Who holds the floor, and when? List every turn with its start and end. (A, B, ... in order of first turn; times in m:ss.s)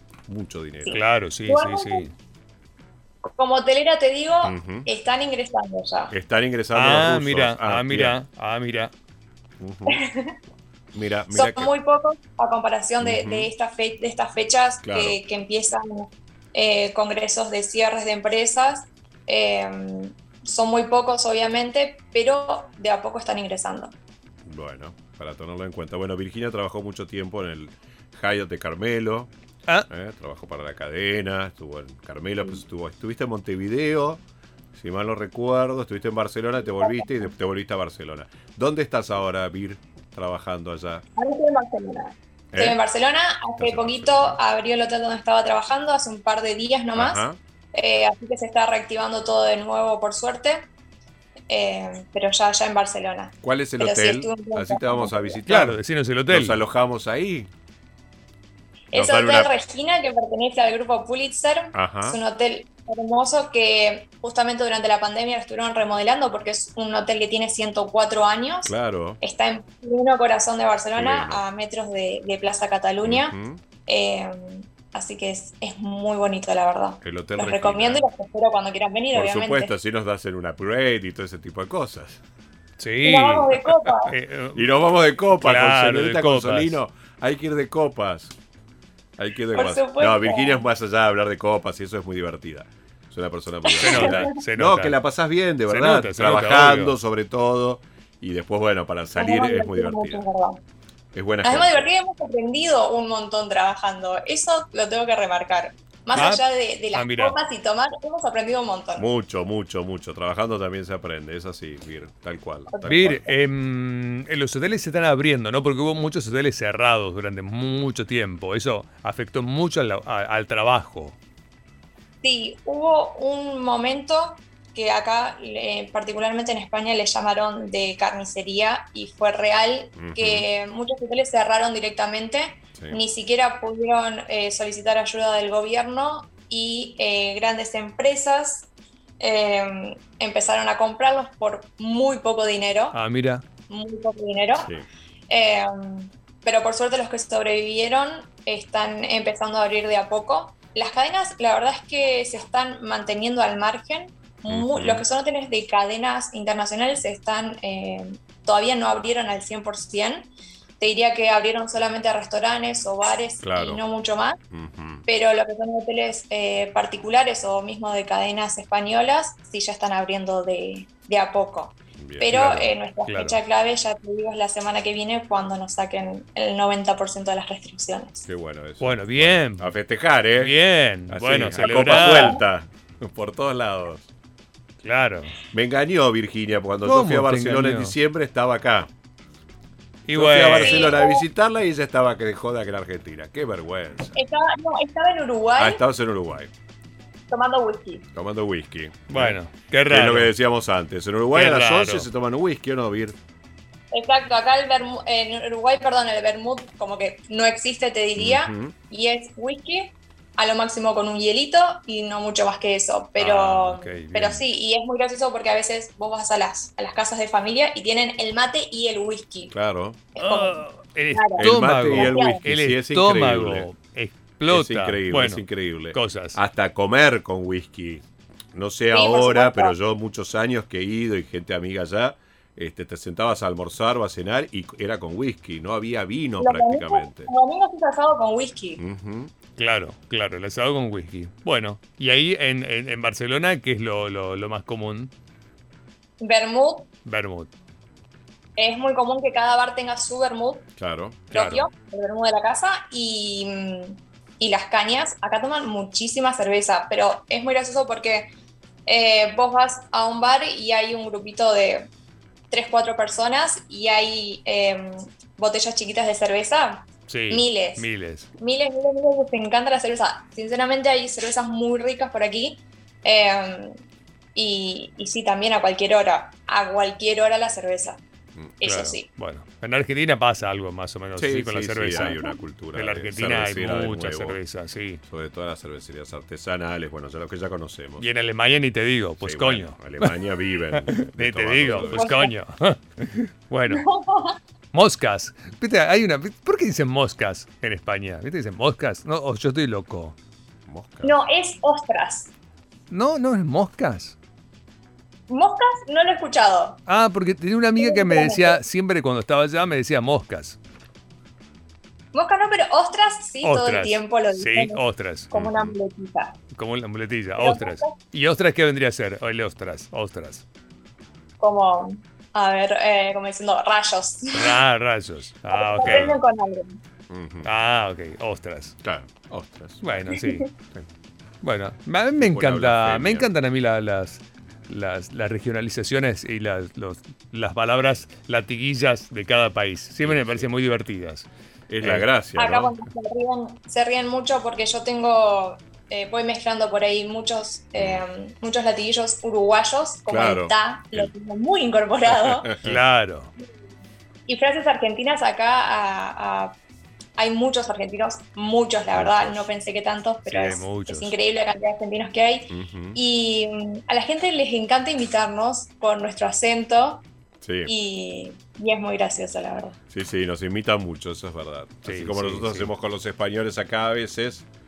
0:00.3-0:01.0 A
0:00.8-0:02.1 B
0:00.9-0:02.1 C
0:03.4-0:06.1 B
0:04.4-0:04.9 A
0:06.1-0:08.2 A
0:06.7-0:08.9 C
0:09.6-0:10.0 A
0:09.9-0:10.3 B
0:10.9-0:11.7 A
0:11.3-0:23.9 B
0:13.0-0:13.5 A
0:14.8-0:15.2 A
0:24.4-0:29.3 A
0:29.9-0:34.2 A
0:34.7-0:41.0 A
0:36.7-0:37.3 B
0:41.2-0:50.6 B
0:42.5-0:42.8 A
0:43.6-0:44.4 A
0:46.9-0:47.4 A
0:51.5-0:55.4 B
0:53.4-0:57.5 A
0:55.5-0:56.6 C
0:58.9-1:13.3 B
0:58.9-0:59.5 A
1:01.7-1:02.2 A
1:08.6-1:09.2 A
1:10.9-1:11.4 A
1:13.0-1:13.6 A
1:13.9-1:19.7 B
1:17.0-1:18.0 A
1:19.1-1:22.2 A
1:22.8-1:24.7 C
1:23.0-1:24.1 B
1:24.5-1:28.3 A
1:25.4-1:26.8 C
1:29.2-1:40.2 A
1:29.5-1:30.6 B
1:33.6-1:34.3 B
1:33.8-1:35.0 C
1:35.7-1:36.9 C
1:39.2-1:40.6 B
1:41.1-1:41.9 A
1:41.4-1:49.1 B
1:46.1-1:46.4 C
1:46.9-1:47.3 C
1:49.0-1:53.2 A
1:52.7-1:53.3 B
1:52.9-2:01.2 C
2:02.2-2:18.7 B
2:10.0-2:10.5 A
2:19.2-2:23.0 B
2:22.9-2:23.4 C
2:23.7-2:24.7 B
2:24.6-2:24.8 A
2:25.3-2:40.3 B
2:34.5-2:35.0 A
2:40.8-2:44.4 B
2:43.4-2:43.8 A
2:44.5-2:45.0 A
2:45.1-2:58.2 B
2:52.0-2:52.3 A
2:52.3-2:53.4 C
2:58.2-3:00.6 A
2:58.8-2:59.7 C
3:00.4-3:02.4 C
3:01.1-3:04.1 A
3:01.7-3:02.4 B
3:04.8-3:05.3 C
3:05.5-3:08.9 A
3:06.8-3:08.0 C
3:10.1-3:11.0 C
3:10.1-3:14.1 A
3:10.5-3:11.2 B
3:14.1-3:15.8 B
3:15.6-3:16.5 A
3:17.3-3:18.0 B
3:18.1-3:23.1 A
3:19.1-3:20.3 C
3:21.3-3:22.1 C
3:23.9-3:39.5 B
3:28.2-3:28.7 A
3:33.2-3:34.4 C
3:39.5-3:40.0 A
3:40.1-3:42.4 B
3:40.2-3:46.4 C
3:41.4-3:43.7 A
3:44.5-3:57.3 A
3:48.9-3:49.8 B
3:56.4-3:58.8 B
3:58.8-3:59.3 A
3:59.6-4:05.1 C
4:06.2-4:06.9 B
4:07.0-4:07.5 C
4:08.6-4:10.7 B
4:10.8-4:11.2 A
4:11.3-4:18.3 B
4:11.3-4:11.7 C
4:18.8-4:21.9 B
4:22.5-4:27.9 B
4:27.1-4:28.3 C
4:28.4-4:33.8 B
4:34.3-4:38.0 B
4:38.6-4:39.1 B
4:38.6-4:42.2 C
4:41.2-4:44.4 A
4:42.0-4:42.4 B
4:42.7-4:45.0 C
4:45.0-4:48.1 A
4:48.0-4:50.2 C
4:49.2-4:52.2 A
4:50.7-4:53.8 C
4:51.7-4:52.3 B
4:53.7-4:54.4 B
4:54.7-5:00.1 C
5:00.7-5:01.2 A
5:01.0-5:02.3 B
5:02.9-5:04.2 C
5:05.3-5:06.8 B
5:06.9-5:10.6 C
5:07.8-5:08.6 B
5:12.1-5:16.4 B
5:13.4-5:15.4 C
5:15.3-5:15.7 A
5:16.5-5:20.4 C
5:17.4-5:18.0 B
5:21.4-5:24.6 B
5:24.3-5:26.2 C
5:25.5-5:26.8 B
5:25.8-5:26.1 A
5:27.1-5:27.5 A
5:27.4-5:28.8 C
5:28.8-5:30.0 A
5:29.8-5:30.8 C
5:30.1-5:30.4 B
5:31.4-5:41.3 C
5:32.2-5:33.3 A
5:40.0-5:40.5 A
5:41.7-5:42.7 A
5:42.4-5:52.5 B
5:47.7-5:48.0 A
5:50.1-5:51.1 A
5:52.1-5:52.8 A
5:52.6-5:53.3 C
5:54.3-5:56.5 B
5:57.2-6:07.0 B
5:58.9-5:59.5 A
6:00.2-6:01.1 C
6:02.5-6:03.0 A
6:07.4-6:07.7 A
6:07.7-6:09.8 B
6:09.9-6:14.5 A
6:11.8-6:12.7 C